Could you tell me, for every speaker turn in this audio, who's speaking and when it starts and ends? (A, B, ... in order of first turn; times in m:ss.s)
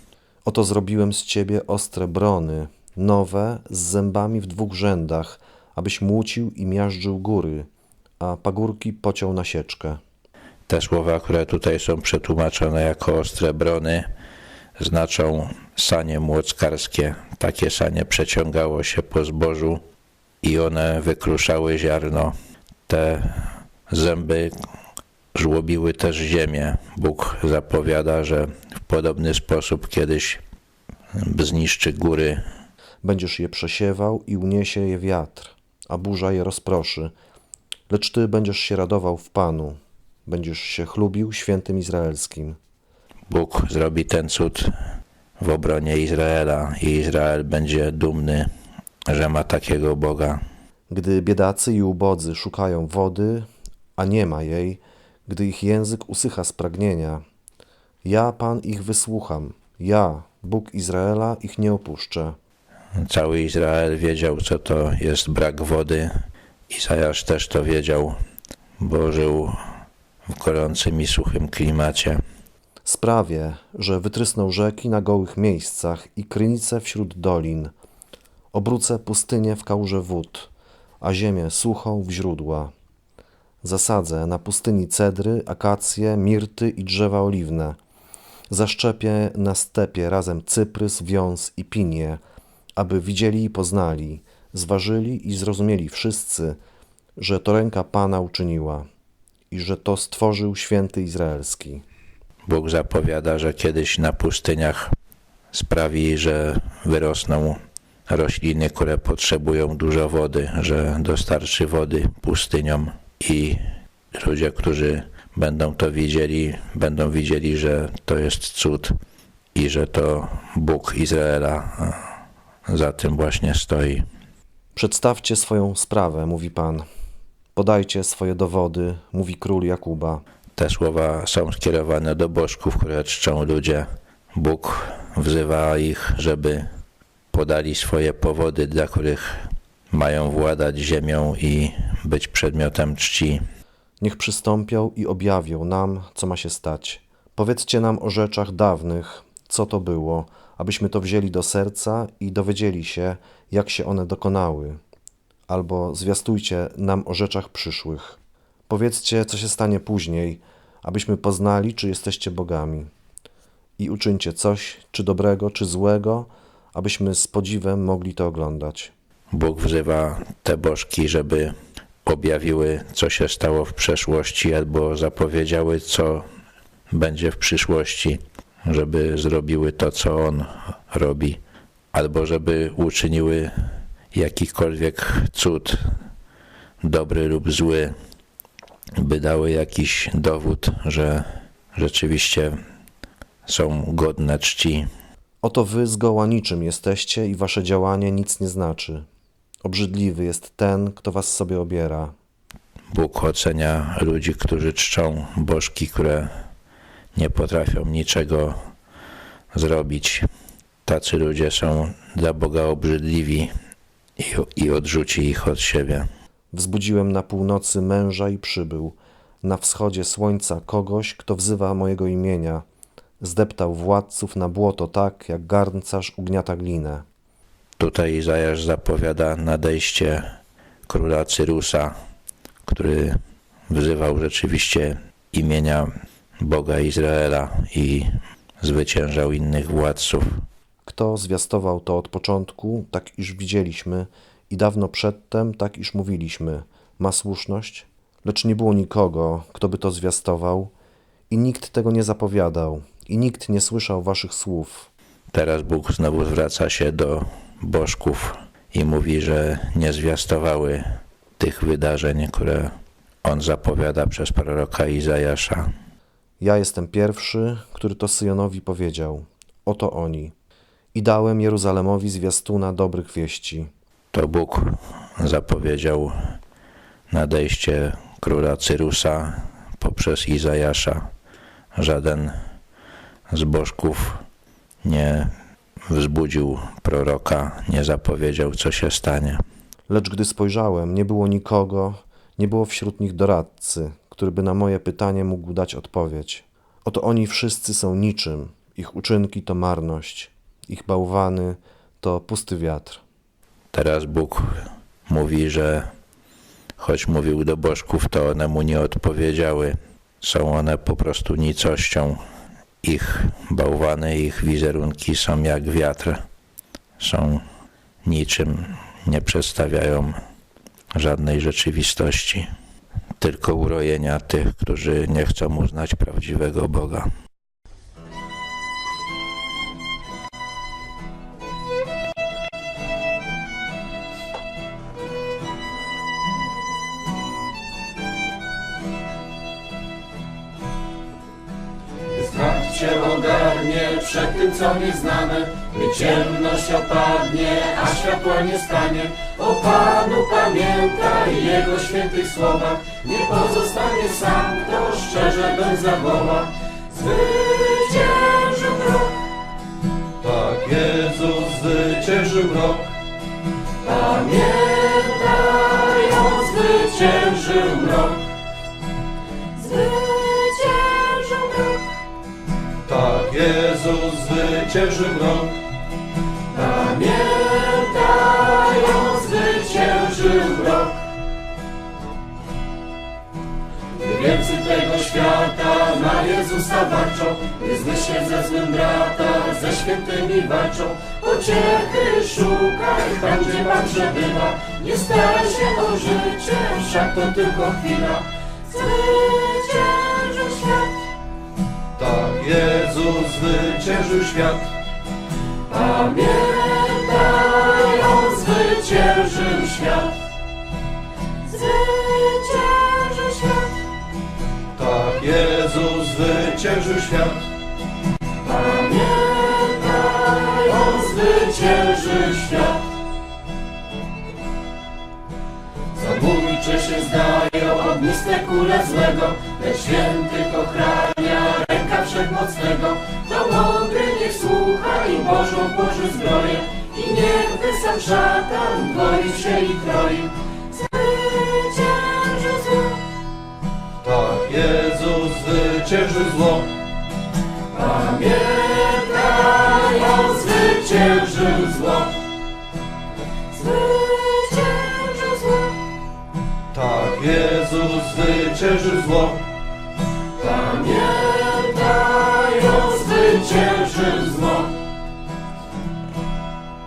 0:00.4-0:07.7 A
0:08.2-0:10.0 A
0:10.7-0:14.1 B
0:14.8-0:19.8 B
0:20.4-0:22.4 B
0:22.9-0:24.6 B
0:25.3-0:30.4 B
0:31.1-0:32.4 B
0:33.0-0:37.1 A
0:37.9-0:42.6 A
0:43.3-0:44.9 B
0:45.4-0:48.5 B
0:49.1-0:50.4 B
0:50.9-0:57.2 A
0:58.0-1:02.4 A
1:03.0-1:08.2 B
1:08.8-1:09.6 B
1:10.3-1:12.2 B
1:12.8-1:17.7 A
1:18.5-1:22.7 A
1:23.6-1:27.8 A
1:28.5-1:32.2 A
1:32.8-1:36.6 A
1:37.2-1:38.8 A
1:39.5-1:41.8 A
1:42.4-1:44.9 B
1:45.5-1:59.0 B
1:59.5-2:02.1 B
2:02.7-2:04.1 B
2:04.7-2:06.8 A
2:07.5-2:10.2 A
2:10.5-2:16.7 B
2:17.3-2:23.4 B
2:24.0-2:34.8 A
2:35.5-2:38.2 A
2:38.7-2:42.9 A
2:43.8-2:48.9 A
2:49.3-2:56.2 B
2:56.9-3:01.4 B
3:01.9-3:06.0 B
3:06.8-3:08.0 B
3:09.0-3:12.6 B
3:13.4-3:14.9 B
3:15.4-3:19.0 A
3:19.6-3:22.1 A
3:22.9-3:26.3 B
3:27.1-3:28.6 B
3:29.5-3:30.3 B
3:30.8-3:33.5 B
3:34.2-3:36.1 B
3:36.5-3:42.6 A
3:43.2-3:47.0 A
3:47.8-3:50.3 B
3:50.9-3:51.9 B
3:52.6-4:00.4 B
4:00.8-4:10.7 A
4:11.3-4:14.9 A
4:15.3-4:25.7 B
4:26.4-4:30.3 A
4:30.9-4:33.7 A
4:34.1-4:36.2 B
4:37.1-4:41.1 B
4:41.7-4:42.4 B
4:43.3-4:44.2 B
4:44.8-4:45.3 B
4:45.9-4:49.4 B
4:49.9-5:03.0 A
5:03.7-5:05.9 B
5:06.8-5:12.2 B
5:12.8-5:16.2 B
5:17.0-5:17.4 B
5:18.0-5:20.2 B
5:20.9-5:22.5 B
5:23.2-5:27.1 B
5:42.2-5:59.1 C
6:00.2-6:02.9 D
6:03.8-6:08.2 C
6:09.5-6:11.8 C
6:12.9-6:14.1 B
6:12.9-6:15.6 D
6:16.5-6:21.0 C
6:24.0-6:40.9 C
6:42.0-6:44.7 D
6:42.3-6:43.2 B
6:45.9-6:50.1 C
6:51.5-6:53.7 C
6:54.8-6:57.4 D
6:58.4-7:02.8 C
7:06.0-7:23.0 C
7:24.0-7:26.7 D
7:24.5-7:25.5 B
7:27.8-7:32.1 C
7:33.5-7:35.7 C
7:36.7-7:39.4 D
7:37.1-7:38.2 B
7:38.8-7:39.2 B
7:40.5-7:44.7 C